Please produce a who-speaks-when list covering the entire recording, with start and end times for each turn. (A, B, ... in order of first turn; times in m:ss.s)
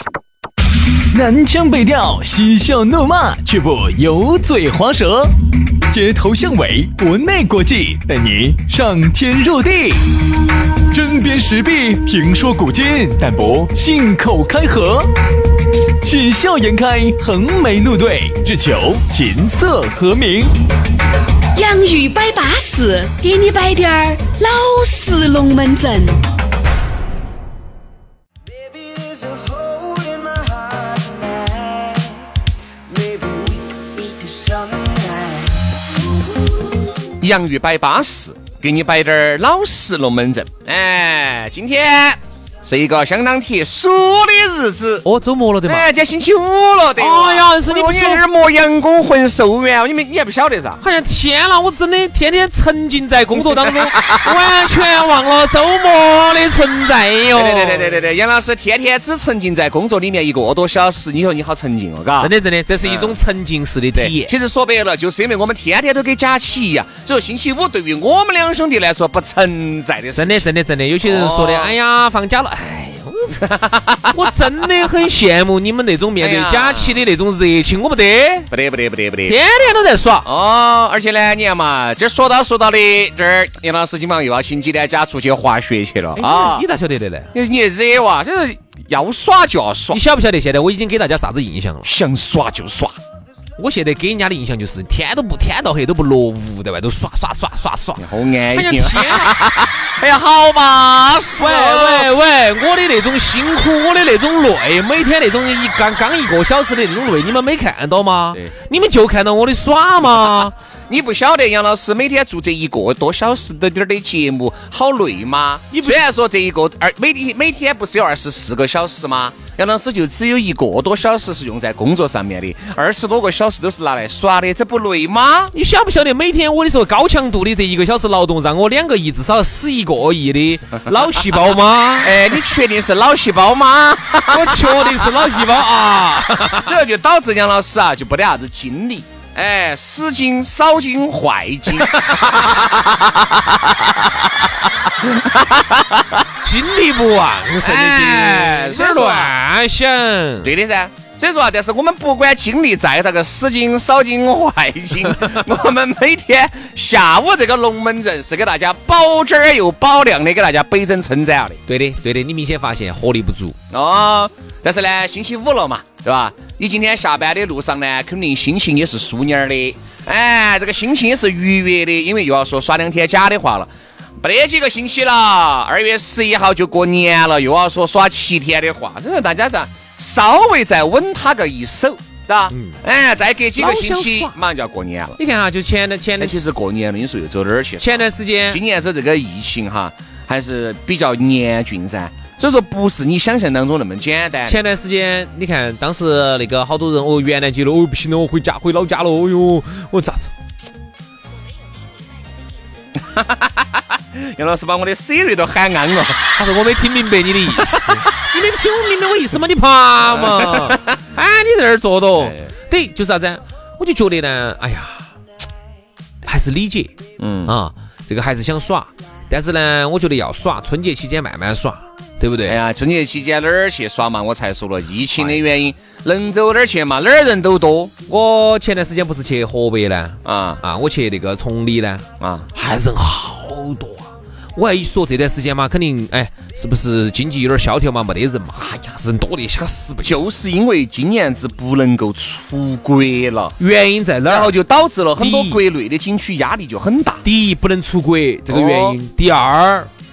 0:01.1-0:05.3 A
0:05.9-0:10.1 A
0:10.9-0:15.1 A
0:16.0-0:20.5 A
0:21.6-0:26.2 B
0:28.5-0:32.3 C
0:32.9-0:35.6 C
0:37.2-0:45.1 D
0:45.1-0:45.9 E
0:45.6-0:50.8 D
0:47.0-0:48.2 E
0:50.8-0:58.0 E
0:53.4-0:54.3 D
0:57.3-1:03.2 D
1:02.2-1:04.3 E
1:04.0-1:10.5 D
1:10.2-1:13.5 E
1:11.0-1:11.8 D
1:13.4-1:14.3 D
1:14.0-1:18.5 E
1:16.2-1:17.0 D
1:18.5-1:19.4 D
1:19.3-1:20.3 E
1:20.2-1:26.7 D
1:26.2-1:27.3 E
1:27.3-1:30.0 D
1:29.9-1:31.9 E
1:31.8-1:33.0 D
1:33.6-1:39.4 E
1:38.0-1:42.1 D
1:41.4-1:50.6 E
1:50.9-2:05.5 D
1:55.7-1:56.0 E
2:05.5-2:12.2 E
2:12.0-2:15.3 D
2:14.3-2:16.8 E
2:16.6-2:24.2 D
2:25.0-2:26.2 D
2:26.4-2:30.5 E
2:27.6-2:29.3 D
2:30.4-2:41.6 D
2:41.7-2:43.6 E
2:43.7-3:05.2 D
3:02.5-3:02.8 E
3:03.6-3:04.4 E
3:05.2-3:06.4 E
3:06.2-3:14.6 D
3:07.8-3:08.6 E
3:14.5-3:20.3 E
3:23.0-3:26.3 D
3:26.4-3:35.1 E
3:27.6-3:28.0 D
3:30.1-3:31.0 D
3:36.2-3:36.9 E
3:37.2-3:37.5 D
3:37.5-3:42.6 E
3:42.4-3:48.0 D
3:48.1-4:00.3 E
3:50.2-3:50.6 D
3:52.2-3:52.5 D
4:00.0-4:03.6 D
4:03.6-4:04.6 E
4:04.3-4:07.2 D
4:05.2-4:05.6 E
4:07.2-4:09.9 E
4:08.5-4:09.0 D